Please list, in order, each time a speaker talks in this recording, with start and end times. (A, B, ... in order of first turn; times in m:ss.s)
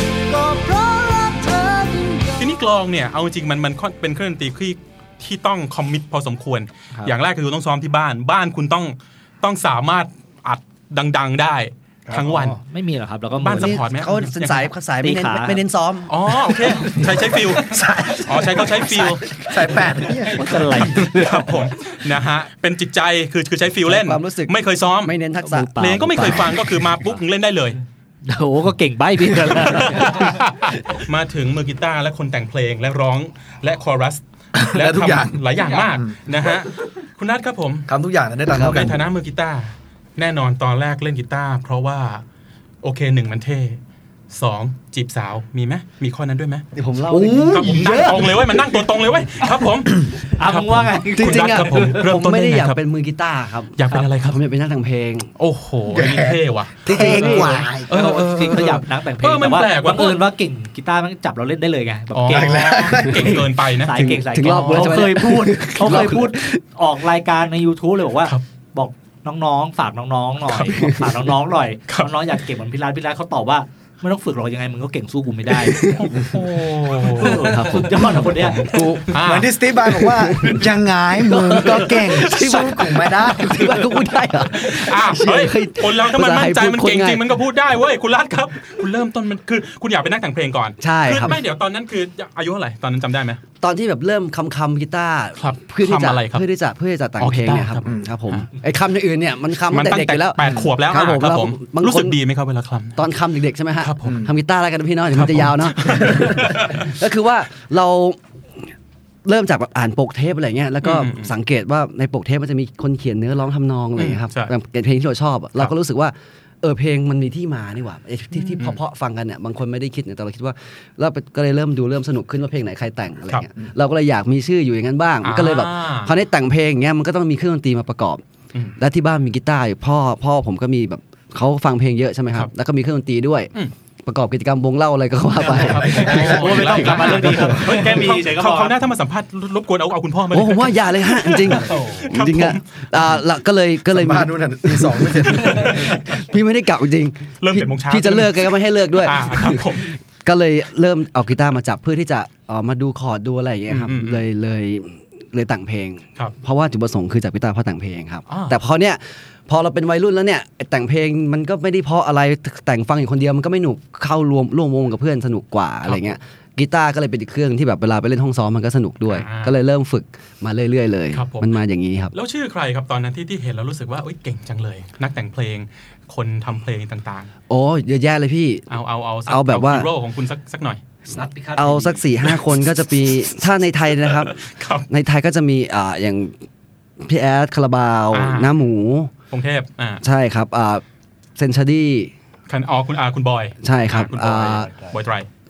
0:00.3-0:02.5 A
0:02.4-0:12.6 B
0:12.1-0:13.8 C
0:13.4-0:14.7 B
0:13.5-0:16.3 D
0:15.0-0:15.6 C
0:16.1-0:19.3 B
0:17.2-0:21.0 E
0:20.3-0:21.5 C
0:20.8-0:25.2 B
0:23.8-0:26.5 D
0:25.4-0:26.5 C
0:25.8-0:27.8 B
0:28.2-0:30.4 C
0:29.5-0:37.9 B
0:34.5-0:36.5 E
0:37.9-0:39.0 E
0:38.5-0:42.2 B
0:42.8-0:43.8 B
0:44.3-0:46.6 B
0:46.8-0:48.2 D
0:47.0-0:48.8 E
0:47.5-0:52.8 B
0:50.2-0:52.0 C
0:51.2-0:55.3 D
0:53.8-0:54.4 B
0:55.4-1:00.2 B
0:55.9-0:57.8 E
0:56.8-0:57.7 D
0:56.9-1:03.2 C
1:02.1-1:05.0 B
1:02.3-1:03.5 E
1:03.8-1:15.9 C
1:03.9-1:06.6 D
1:10.5-1:11.0 B
1:11.9-1:12.1 B
1:15.8-1:17.6 B
1:17.2-1:18.7 C
1:17.3-1:19.2 D
1:18.3-1:19.5 B
1:19.2-1:23.9 E
1:19.9-1:27.2 D
1:21.5-1:23.3 B
1:24.5-1:33.4 B
1:30.8-1:31.4 D
1:33.6-1:42.2 D
1:35.4-1:36.4 B
1:37.2-1:38.5 B
1:39.7-1:43.0 B
1:40.4-1:40.7 E
1:43.0-1:48.6 D
1:43.8-1:44.2 B
1:44.0-1:44.3 E
1:45.1-1:46.9 B
1:49.2-2:08.2 D
1:50.8-1:51.3 B
1:54.0-1:54.5 B
2:05.2-2:06.1 B
2:08.8-2:13.5 D
2:14.0-2:17.7 D
2:15.4-2:23.0 B
2:15.8-2:18.7 C
2:20.3-2:52.1 D
2:23.9-2:25.9 E
2:25.3-2:26.0 B
2:27.4-2:29.9 B
2:33.7-2:34.2 B
2:38.3-2:38.6 B
2:45.8-2:46.2 B
2:49.1-2:49.5 B
2:51.1-2:51.6 B
2:52.1-2:57.3 B
2:57.5-2:58.6 D
2:58.7-3:00.8 B
2:59.3-2:59.9 D
3:01.1-3:02.1 C
3:01.6-3:06.4 D
3:04.2-3:04.9 B
3:07.0-3:09.1 D
3:08.1-3:08.5 B
3:09.3-3:10.0 B
3:10.0-3:10.8 D
3:11.4-3:12.1 D
3:12.5-3:15.3 B
3:13.6-3:14.7 D